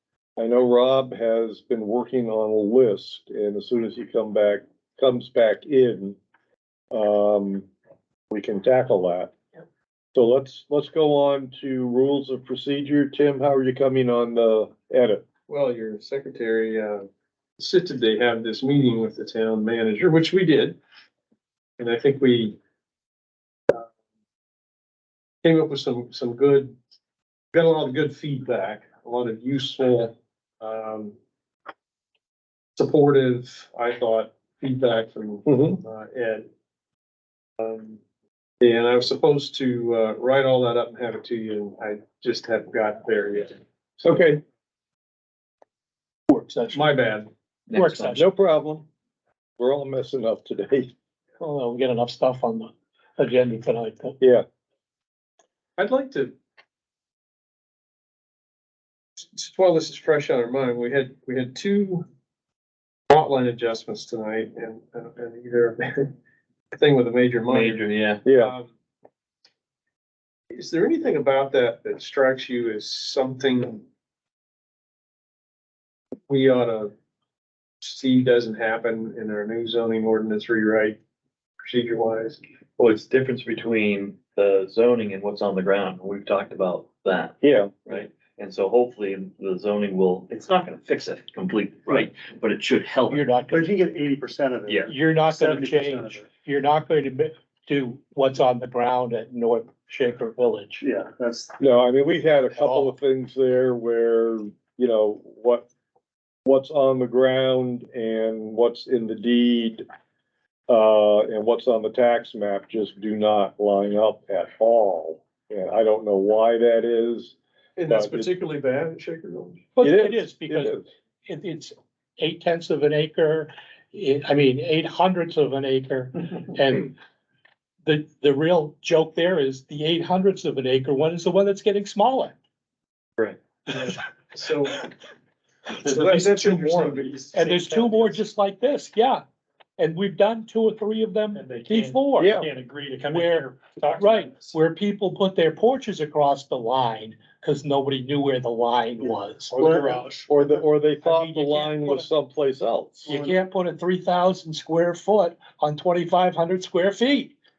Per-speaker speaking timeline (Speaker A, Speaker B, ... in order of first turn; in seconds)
Speaker A: 0.4-6.2, 6.9-7.7, 8.3-9.3, 10.1-15.2, 35.5-35.8, 44.0-44.4, 48.1-48.9, 49.6-50.9, 68.2-68.5, 87.4-87.7, 101.6-105.7, 106.4-109.8, 110.7-117.4, 117.9-118.3, 119.8-120.8, 142.2-142.5, 150.3-153.1
Speaker B: 15.5-17.1, 17.6-20.8, 21.8-22.6, 25.4-26.7, 27.5-31.1, 32.8-36.5, 37.6-38.0, 38.6-43.6, 46.7-47.3, 55.8-56.3, 59.2-62.0, 63.1-66.1, 66.7-68.7, 70.5-73.8, 76.3-76.9, 77.8-81.0, 81.6-82.4, 117.8-119.7, 133.7-134.8, 135.8-137.5
Speaker C: 46.3-46.8, 47.7-48.2, 51.4-54.2, 93.1-93.8, 94.8-100.8, 102.5-102.9, 119.8-126.9, 127.8-132.3, 135.8-139.2, 139.8-150.0, 151.0-152.1, 153.1-157.3
Speaker D: 47.7-48.1, 67.5-68.2, 82.8-93.3, 94.6-94.9
Speaker E: 93.5-96.2, 100.8-101.5, 137.5-138.0, 141.3-141.9, 142.9-144.3, 149.5-150.2